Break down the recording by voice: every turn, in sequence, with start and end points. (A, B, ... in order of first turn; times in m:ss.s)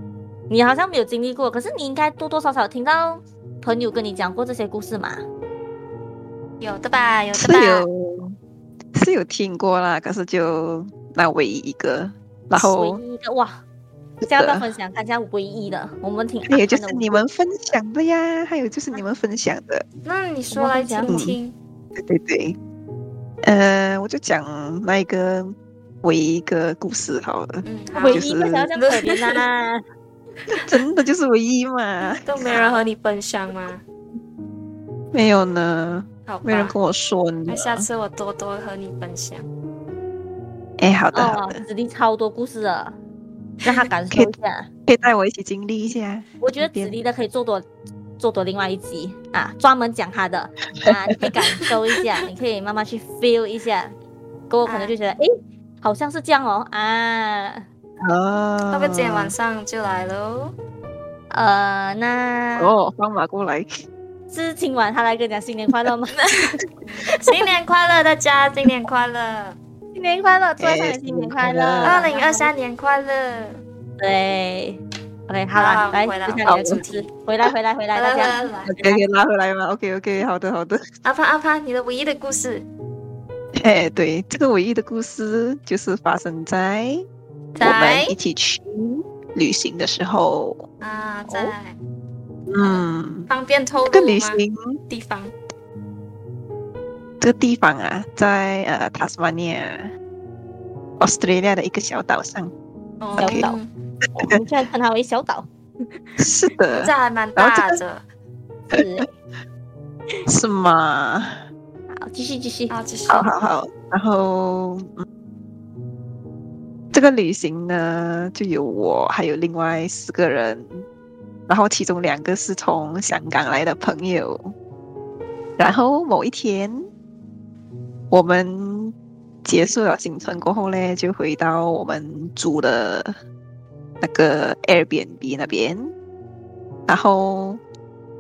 0:00.5-0:05.2 A
0:06.6-0:07.8 B
0:07.4-0:08.4 C
0:08.9-0:13.0 C
0:12.5-0:13.6 A
0:14.2-0:14.7 C
0:14.2-0:17.2 A
0:16.5-0:19.9 C
0:20.0-0:21.5 B
0:20.5-0:21.2 A
0:21.1-0:21.4 C
0:22.0-0:22.6 C
0:23.4-0:28.7 C
0:27.6-0:29.4 B
0:27.9-0:29.8 A
0:30.5-0:32.6 C
0:32.2-0:33.8 B
0:32.4-0:32.8 A
0:35.1-0:37.9 C
0:36.3-0:36.7 B
0:37.5-0:39.5 B
0:40.8-0:41.6 C
0:41.1-0:43.0 A
0:43.6-0:44.7 A
0:44.9-0:47.0 C
0:46.4-0:47.6 A
0:48.2-0:54.0 A
0:50.8-0:51.2 C
0:54.5-0:55.3 A
0:54.6-0:55.0 B
0:55.8-0:57.6 A
0:58.0-0:59.3 C
0:58.7-1:00.5 B
1:01.3-1:02.7 A
1:02.6-1:03.8 C
1:04.3-1:07.4 A
1:07.0-1:09.6 B
1:09.9-1:12.5 A
1:10.6-1:12.0 C
1:11.8-1:13.6 B
1:14.0-1:19.0 A
1:15.6-1:17.1 B
1:16.4-1:16.8 C
1:17.9-1:18.7 B
1:18.6-1:20.8 C
1:21.0-1:22.6 B
1:23.5-1:27.0 C
1:27.6-1:28.2 B
1:27.6-1:30.6 C
1:30.8-1:31.8 B
1:31.3-1:31.5 A
1:32.5-1:33.3 C
1:32.6-1:35.3 B
1:33.8-1:34.8 C
1:37.2-1:39.9 C
1:41.0-1:42.5 C
1:43.0-1:43.7 B
1:43.2-1:43.5 C
1:43.2-1:43.6 A
1:44.2-1:45.5 A
1:46.2-1:47.8 C
1:46.7-1:48.0 B
1:48.7-1:49.1 A
1:50.3-1:51.4 C
1:51.9-1:53.3 A
1:52.7-1:53.3 B
1:53.1-1:55.0 C
1:56.9-2:00.8 C
2:01.5-2:04.5 C
2:05.6-2:06.8 C
2:08.1-2:08.9 C
2:09.4-2:13.1 C
2:14.0-2:15.9 C
2:16.9-2:17.6 C